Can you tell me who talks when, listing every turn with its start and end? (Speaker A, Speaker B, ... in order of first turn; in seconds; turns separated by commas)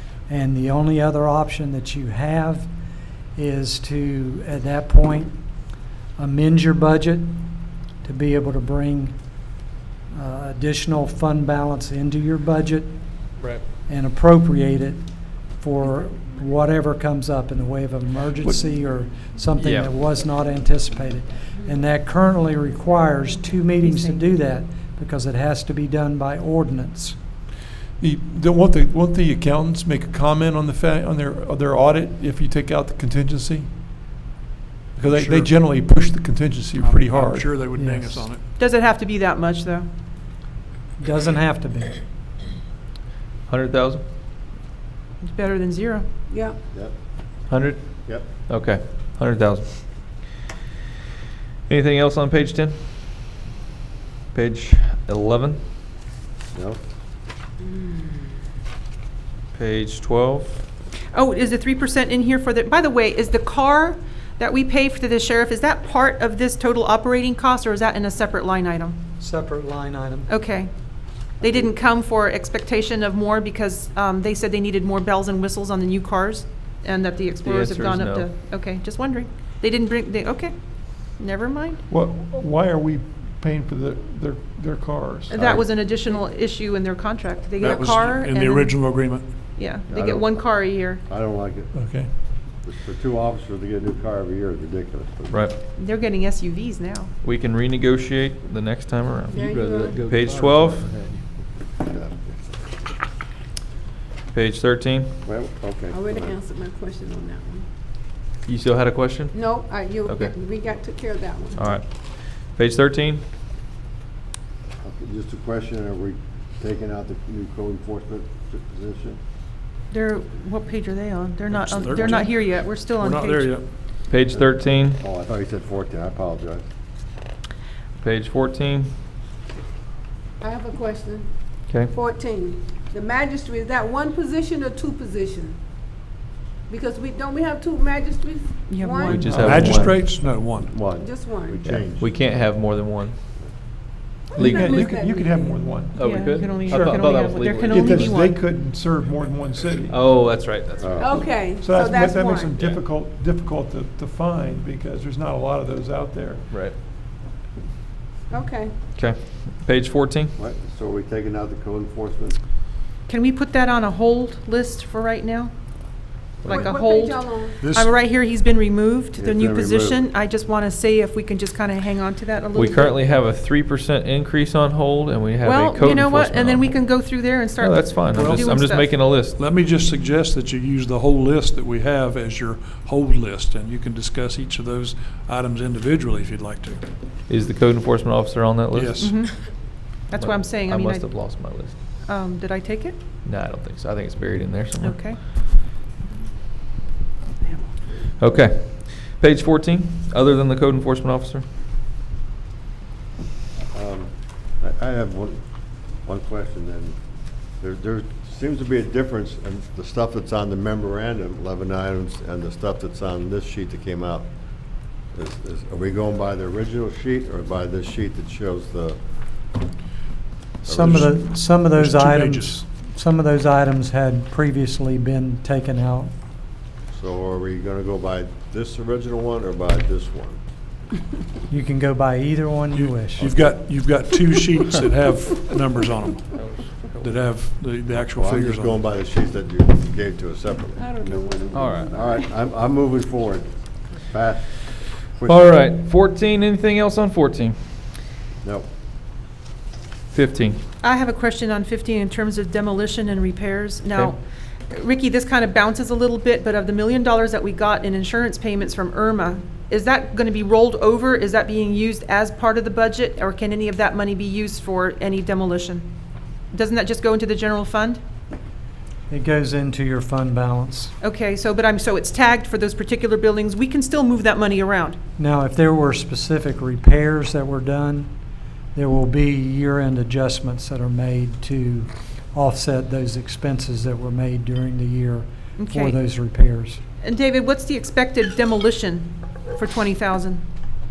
Speaker A: 0.3-2.7, Speaker A: 3.4-5.3, Speaker A: 6.2-7.4, Speaker A: 8.0-9.1, Speaker A: 10.1-13.0, Speaker A: 13.8-15.0, Speaker A: 15.6-27.1, Speaker B: 19.6-19.9, Speaker C: 23.8-24.4, Speaker D: 28.0-33.7, Speaker D: 35.0-37.6, Speaker E: 35.0-35.6, Speaker E: 36.8-38.4, Speaker A: 37.7-38.3, Speaker C: 38.6-39.9, Speaker A: 41.0-42.0, Speaker B: 43.5-44.0, Speaker C: 45.2-46.0, Speaker F: 46.3-46.6, Speaker B: 47.5-49.8, Speaker B: 51.7-52.8, Speaker B: 54.3-55.6, Speaker G: 56.5-56.8, Speaker F: 57.6-58.3, Speaker B: 59.5-60.6, Speaker C: 61.1-69.0, Speaker A: 69.2-70.3, Speaker C: 70.3-70.7, Speaker C: 71.4-81.8, Speaker B: 77.4-78.3, Speaker D: 81.9-85.7, Speaker C: 85.3-91.0, Speaker E: 87.6-89.3, Speaker G: 89.9-90.5, Speaker G: 91.1-92.0, Speaker D: 91.7-92.1, Speaker G: 92.6-95.4, Speaker B: 95.3-95.6, Speaker C: 95.7-97.1, Speaker B: 97.2-101.2, Speaker F: 99.3-100.2, Speaker G: 101.8-102.5, Speaker B: 104.3-105.1, Speaker G: 105.2-106.4, Speaker F: 105.9-107.7, Speaker B: 108.4-109.4, Speaker F: 109.3-111.7, Speaker B: 110.0-110.3, Speaker B: 111.5-113.2, Speaker G: 114.8-119.2, Speaker C: 119.9-123.6, Speaker E: 121.5-123.6, Speaker B: 124.1-125.0, Speaker G: 125.0-126.6, Speaker B: 128.0-128.9, Speaker F: 130.4-131.3, Speaker F: 131.8-135.6, Speaker F: 136.7-139.8, Speaker C: 138.7-139.2, Speaker B: 139.0-140.1, Speaker D: 139.2-139.6, Speaker E: 139.4-140.8, Speaker G: 139.9-142.1, Speaker F: 140.8-141.6, Speaker B: 141.6-143.2, Speaker F: 144.3-145.6, Speaker D: 144.3-146.0, Speaker B: 144.4-144.7, Speaker B: 145.9-148.2, Speaker C: 146.0-148.4, Speaker D: 146.6-147.0, Speaker D: 147.6-150.0, Speaker B: 149.9-151.3, Speaker G: 150.8-151.2, Speaker F: 151.0-152.6, Speaker D: 151.5-156.5, Speaker B: 152.6-152.8, Speaker B: 156.5-156.8, Speaker F: 158.3-158.7, Speaker B: 158.9-160.3, Speaker G: 160.4-162.4, Speaker C: 163.1-165.5, Speaker B: 166.4-166.7, Speaker F: 166.4-167.6, Speaker C: 166.4-173.0, Speaker E: 167.6-167.9, Speaker G: 169.2-170.1, Speaker B: 172.5-176.7, Speaker C: 175.4-178.9, Speaker B: 177.6-179.4, Speaker E: 178.1-178.5, Speaker E: 179.4-186.8, Speaker B: 187.3-189.1, Speaker E: 188.7-189.5, Speaker C: 189.0-191.2, Speaker B: 190.1-191.8, Speaker C: 192.0-193.0, Speaker B: 193.2-195.1, Speaker C: 194.8-195.2, Speaker B: 198.2-201.4, Speaker G: 203.7-205.4, Speaker G: 206.0-207.0, Speaker G: 207.6-214.3, Speaker G: 215.1-219.0, Speaker A: 220.6-226.1, Speaker G: 220.7-221.0, Speaker E: 220.7-222.6, Speaker G: 226.9-230.4, Speaker A: 231.5-233.3, Speaker E: 232.7-236.4, Speaker B: 236.3-237.2, Speaker E: 237.0-238.8, Speaker G: 238.1-241.2, Speaker F: 240.8-242.3, Speaker B: 241.5-241.9, Speaker G: 241.9-245.5, Speaker B: 245.3-247.6, Speaker G: 248.4-248.7, Speaker B: 250.1-250.6, Speaker C: 250.8-254.2, Speaker C: 254.7-265.9, Speaker C: 266.5-268.0, Speaker A: 269.1-270.9, Speaker C: 271.0-275.0, Speaker A: 275.2-278.1, Speaker A: 278.7-286.8, Speaker C: 285.6-285.9, Speaker C: 287.0-290.4